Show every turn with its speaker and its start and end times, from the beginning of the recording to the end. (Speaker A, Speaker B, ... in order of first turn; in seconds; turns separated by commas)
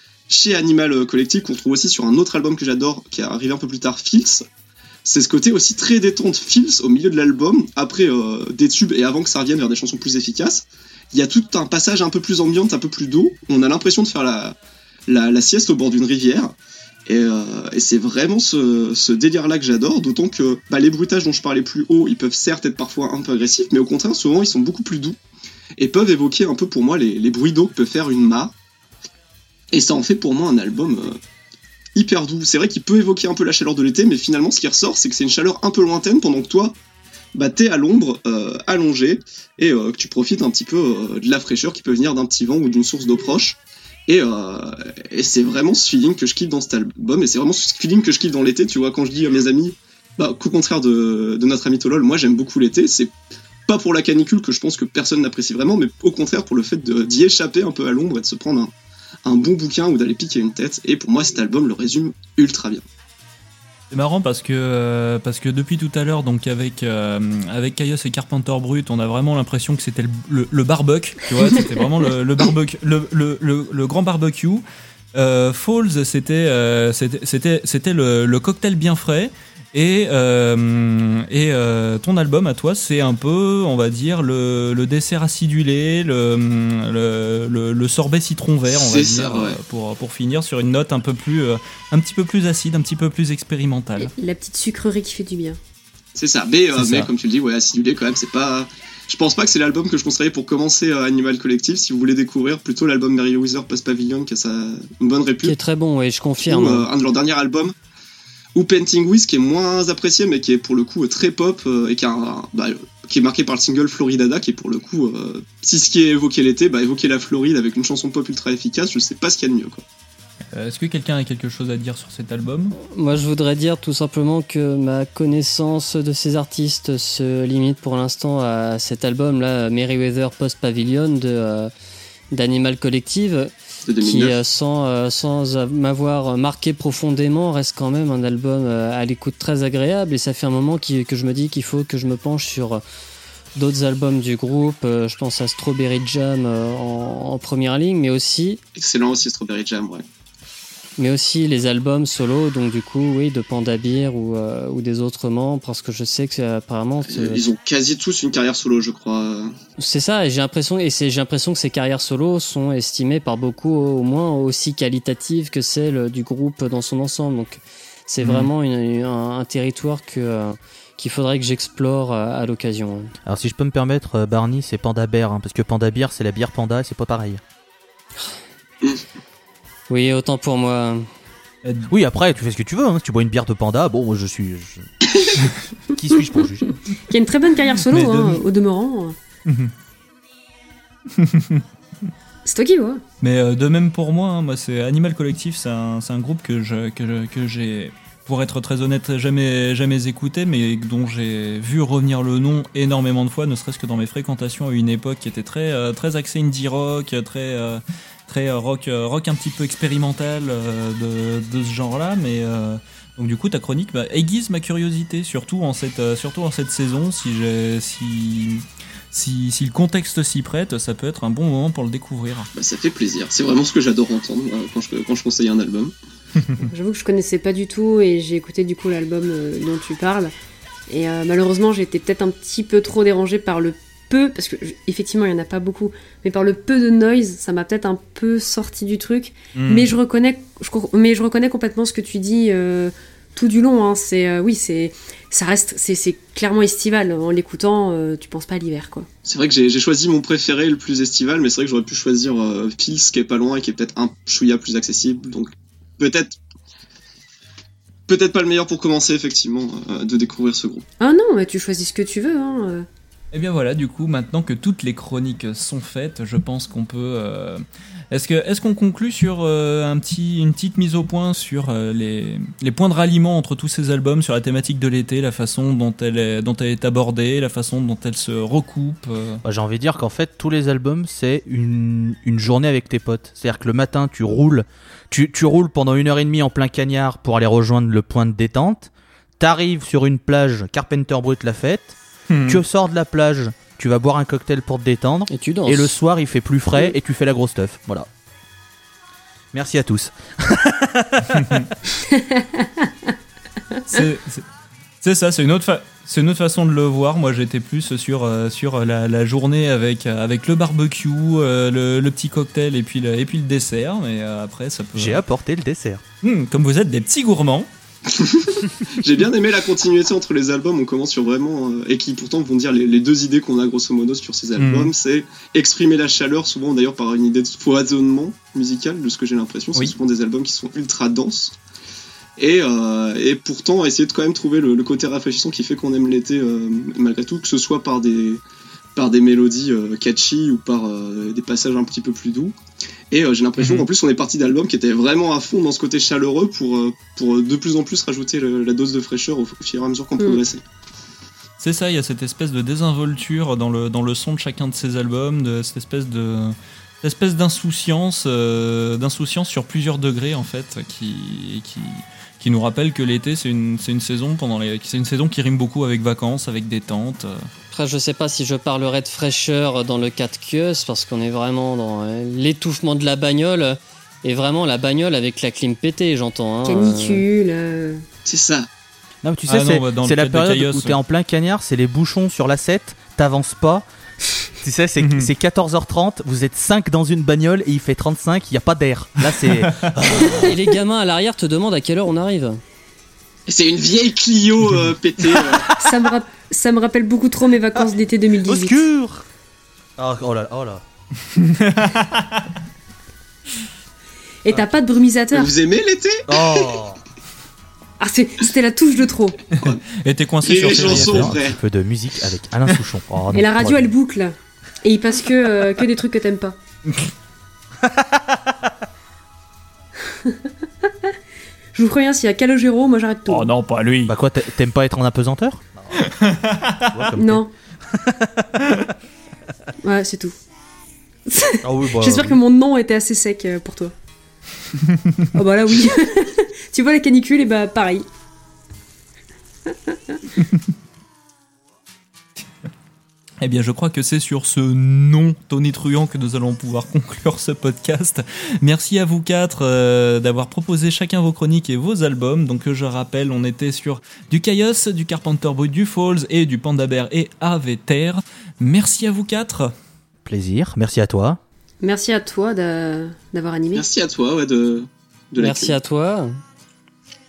Speaker A: 0.3-4.5, Speaker A: 5.0-14.6, Speaker A: 15.1-16.5, Speaker A: 17.1-25.2, Speaker A: 25.8-28.5, Speaker A: 29.7-31.2, Speaker A: 31.9-36.8, Speaker A: 37.3-53.1, Speaker A: 53.7-58.7, Speaker A: 59.2-62.8, Speaker B: 63.9-74.6, Speaker B: 75.1-94.1, Speaker A: 88.7-89.6, Speaker C: 94.0-95.6, Speaker A: 96.1-105.5, Speaker B: 96.7-97.1, Speaker D: 105.4-106.8, Speaker A: 106.4-107.7, Speaker A: 108.5-119.8, Speaker B: 120.5-122.7, Speaker D: 122.8-131.7, Speaker D: 132.3-142.8, Speaker A: 133.9-134.4, Speaker D: 143.6-148.6, Speaker A: 148.8-150.0, Speaker D: 151.0-157.4, Speaker A: 157.0-159.5, Speaker D: 159.8-173.1, Speaker B: 168.2-168.5, Speaker E: 173.2-177.4, Speaker D: 179.9-181.1, Speaker B: 181.6-181.9, Speaker E: 181.9-184.9, Speaker E: 185.9-186.8, Speaker C: 187.1-189.2, Speaker B: 187.8-188.4, Speaker B: 189.4-189.7, Speaker B: 191.1-191.6, Speaker C: 192.4-193.0, Speaker B: 193.2-222.5, Speaker A: 222.5-225.9, Speaker C: 226.6-230.3, Speaker C: 230.9-249.1, Speaker B: 239.5-239.9, Speaker A: 249.2-256.4, Speaker A: 258.1-260.8, Speaker C: 261.0-262.9, Speaker B: 263.3-279.4, Speaker E: 279.4-298.1, Speaker B: 292.3-292.6, Speaker D: 295.3-296.0, Speaker E: 299.5-301.7, Speaker B: 301.3-301.7, Speaker C: 302.1-303.1, Speaker C: 303.7-304.0, Speaker B: 303.9-304.4, Speaker B: 305.0-315.2, Speaker E: 314.9-316.0, Speaker B: 316.2-317.7, Speaker A: 318.1-331.5, Speaker B: 324.6-324.9, Speaker A: 332.4-338.4, Speaker A: 338.9-342.6, Speaker A: 343.1-350.6, Speaker B: 343.6-343.9, Speaker B: 351.6-367.5, Speaker D: 367.7-377.2, Speaker C: 376.6-378.0, Speaker A: 378.2-378.7, Speaker E: 379.2-383.9, Speaker B: 379.5-381.0, Speaker E: 384.6-390.5, Speaker B: 385.0-385.3, Speaker B: 389.6-389.9, Speaker D: 390.1-392.6, Speaker C: 390.2-390.5, Speaker A: 393.5-395.7, Speaker C: 395.8-398.8, Speaker E: 395.8-396.1, Speaker E: 398.4-399.3, Speaker E: 400.0-400.8, Speaker B: 401.3-402.5, Speaker C: 404.4-405.5, Speaker A: 405.3-406.5, Speaker E: 406.3-407.0, Speaker C: 408.0-409.4, Speaker B: 409.6-411.4, Speaker A: 410.4-411.6, Speaker E: 410.8-413.9, Speaker C: 413.3-416.6, Speaker E: 417.8-418.6, Speaker C: 420.1-421.1, Speaker C: 421.7-423.5, Speaker B: 423.3-424.1, Speaker E: 424.1-426.1, Speaker B: 425.9-427.1, Speaker E: 426.9-428.9, Speaker C: 427.1-427.5, Speaker C: 429.8-430.4, Speaker C: 431.3-433.9, Speaker E: 431.6-432.4, Speaker B: 434.9-435.3, Speaker C: 435.3-438.1, Speaker C: 439.7-440.2, Speaker B: 443.4-459.7, Speaker E: 460.2-461.4, Speaker C: 461.8-463.9, Speaker A: 463.7-465.8, Speaker D: 465.4-466.4